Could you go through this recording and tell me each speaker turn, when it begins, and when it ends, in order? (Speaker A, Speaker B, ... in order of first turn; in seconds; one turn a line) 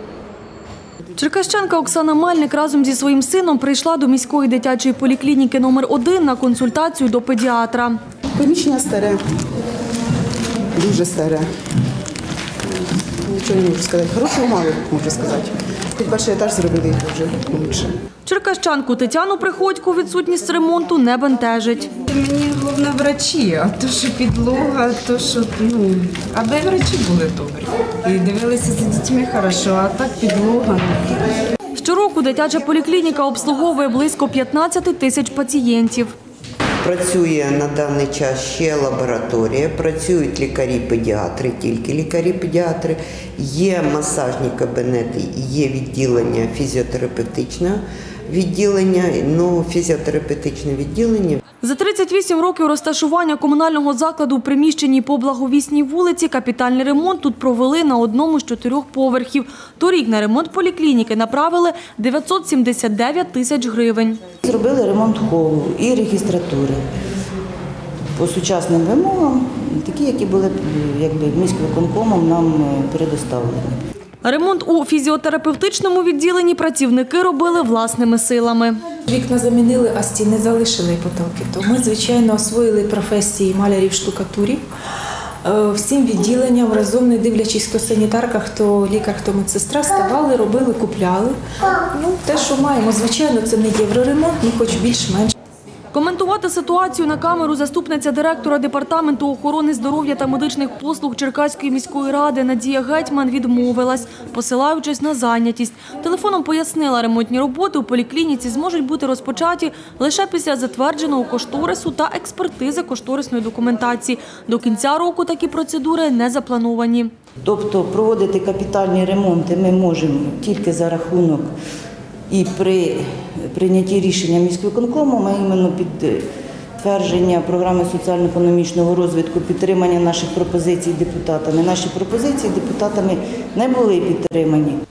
Speaker A: 1.1-8.0
Speaker B: 8.3-9.2
Speaker B: 10.8-11.5
Speaker B: 13.2-17.9
Speaker A: 18.2-21.9
Speaker C: 22.1-22.7
Speaker C: 23.5-24.6
Speaker C: 25.3-31.0
Speaker A: 31.7-36.1
Speaker D: 36.8-51.4
Speaker A: 51.6-64.2
Speaker E: 64.4-66.8
Speaker E: 68.2-73.7
Speaker A: 74.2-78.8
Speaker F: 79.1-84.6
Speaker F: 85.4-95.3
Speaker A: 95.9-117.1
Speaker E: 117.4-121.5
Speaker E: 122.3-126.2
Speaker E: 126.8-134.8